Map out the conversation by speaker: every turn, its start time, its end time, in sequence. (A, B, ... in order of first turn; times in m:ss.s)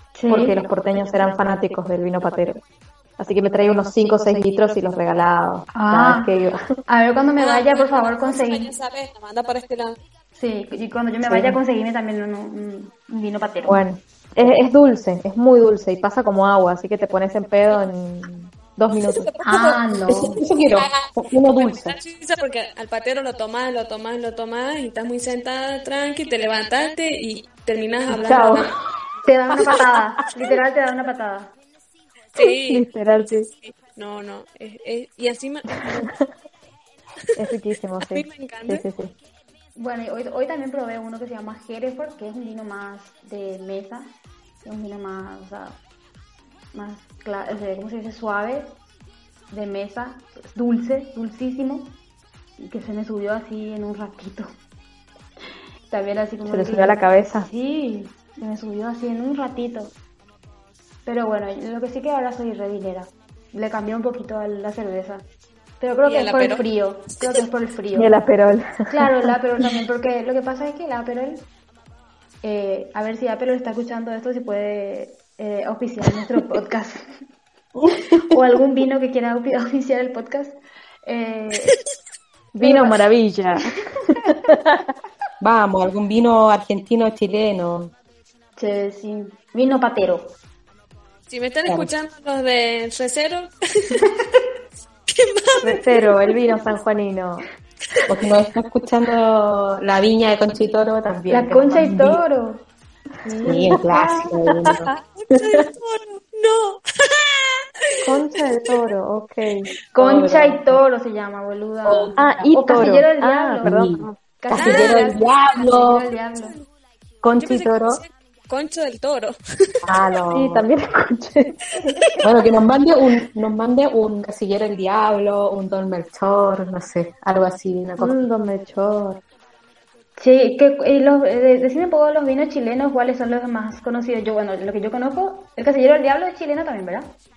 0:00.1-0:00.6 A
0:00.3-0:02.6 B
0:03.2-0:06.6 B
0:05.7-0:06.3 A
0:06.9-0:08.7 A
0:07.4-0:10.0 C
0:10.4-0:13.8 A
0:11.3-0:11.6 B
0:13.6-0:19.4 B
0:19.0-0:19.8 C
0:19.4-0:20.4 A
0:20.0-0:21.9 D
0:20.7-0:28.7 C
0:28.2-0:28.7 B
0:29.2-0:31.5 A
0:29.5-0:29.8 B
0:32.3-0:32.9 C
0:32.4-0:33.5 B
0:33.5-0:36.1 C
0:37.4-0:39.1 B
0:38.1-0:38.8 C
0:39.8-0:45.8 A
0:46.7-0:48.8 A
0:49.5-0:52.0 A
0:52.6-0:54.5 A
0:55.9-0:59.9 A
0:56.4-0:57.5 B
1:01.0-1:05.2 A
1:05.8-1:08.1 A
1:06.0-1:06.6 C
1:07.9-1:09.3 B
1:08.9-1:11.5 A
1:12.4-1:17.0 A
1:17.8-1:18.4 D
1:18.3-1:21.7 A
1:22.5-1:24.9 B
1:22.6-1:23.0 A
1:25.4-1:27.9 D
1:28.6-1:30.4 A
1:31.3-1:33.9 C
1:35.1-1:35.8 C
1:35.6-1:37.4 B
1:38.1-1:42.2 D
1:41.3-1:42.6 A
1:43.2-1:43.8 A
1:43.3-1:44.9 B
1:43.4-1:44.9 D
1:45.2-1:48.0 C
1:48.0-1:49.7 B
1:49.9-1:53.8 A
1:50.0-1:50.8 D
1:51.8-1:52.1 D
1:52.2-1:54.2 B
1:53.6-1:56.0 D
1:54.4-1:56.6 A
1:54.5-1:55.2 C
1:56.3-1:56.7 C
1:57.2-1:58.0 D
1:57.4-1:59.4 C
1:59.8-2:00.6 D
2:00.3-2:02.0 B
2:02.2-2:08.2 D
2:08.0-2:09.2 B
2:10.2-2:17.2 A